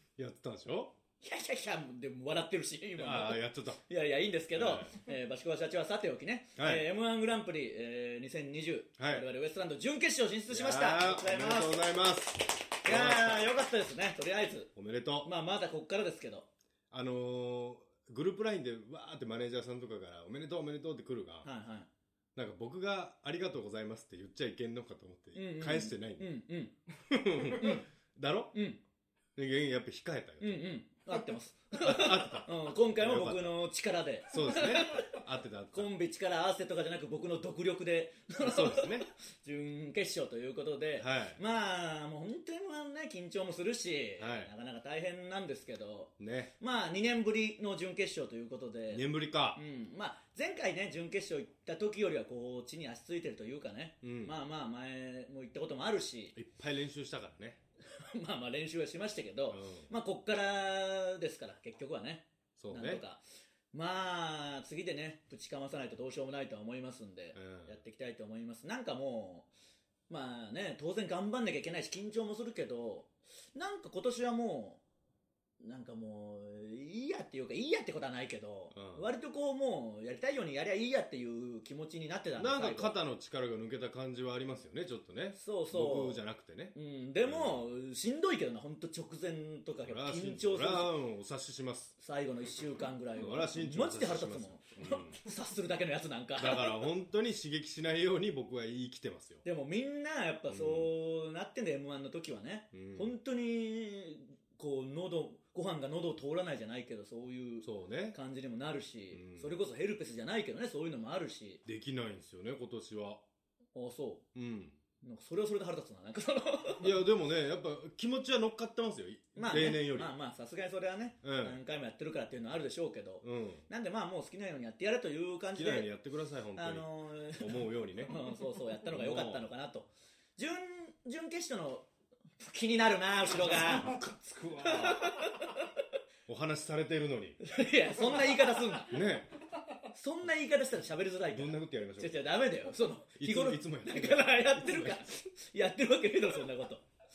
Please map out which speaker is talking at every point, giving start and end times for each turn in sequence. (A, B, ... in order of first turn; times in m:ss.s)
0:00.2-0:00.9 A
0:01.2-0:11.9 B
0:03.0-0:03.8 A
0:04.5-0:04.9 A
0:06.6-0:06.9 A
0:09.0-0:09.3 A
0:10.5-0:13.5 A
0:12.8-0:14.7 B
0:14.7-0:15.3 A
0:15.2-0:16.5 B
0:16.9-0:21.5 A
0:21.4-0:21.9 B
0:22.3-0:26.3 A
0:25.3-0:26.7 B
0:27.0-0:28.5 A
0:27.5-0:27.8 B
0:28.5-0:28.8 B
0:29.4-0:30.6 A
0:30.4-0:35.2 B
0:31.8-0:33.6 A
0:34.3-0:35.9 A
0:35.7-0:56.3 B
0:38.4-0:39.1 A
0:41.0-0:41.4 A
0:44.2-0:44.5 A
0:46.2-0:46.5 A
0:48.9-0:49.6 A
0:54.0-0:54.3 A
0:56.3-0:57.6 A
0:57.8-1:09.5 B
0:59.5-0:59.9 A
1:02.6-1:03.0 A
1:07.3-1:07.8 A
1:10.1-1:14.8 B
1:15.6-1:23.0 B
1:18.7-1:19.1 A
1:22.4-1:27.6 A
1:25.4-1:26.2 B
1:26.7-1:30.9 B
1:29.8-1:31.9 A
1:32.0-1:36.8 B
1:33.2-1:35.2 A
1:36.4-1:39.4 A
1:39.4-1:51.6 B
1:40.5-1:40.9 A
1:42.7-1:43.1 A
1:47.6-1:48.2 A
1:49.1-1:49.5 A
1:51.6-1:53.2 A
1:53.7-1:54.2 B
1:54.3-1:54.8 A
1:55.0-1:56.9 B
1:56.8-2:00.1 A
1:59.3-2:05.9 B
2:01.2-2:01.6 A
2:03.2-2:03.6 A
2:05.5-2:08.2 A
2:06.6-2:11.9 B
2:08.9-2:09.5 A
2:12.4-2:14.0 B
2:13.6-2:15.2 A
2:14.6-2:15.7 B
2:16.3-2:17.4 A
2:17.4-2:19.0 B
2:18.9-2:19.3 A
2:19.9-2:26.8 B
2:21.3-2:22.3 A
2:23.2-2:25.1 A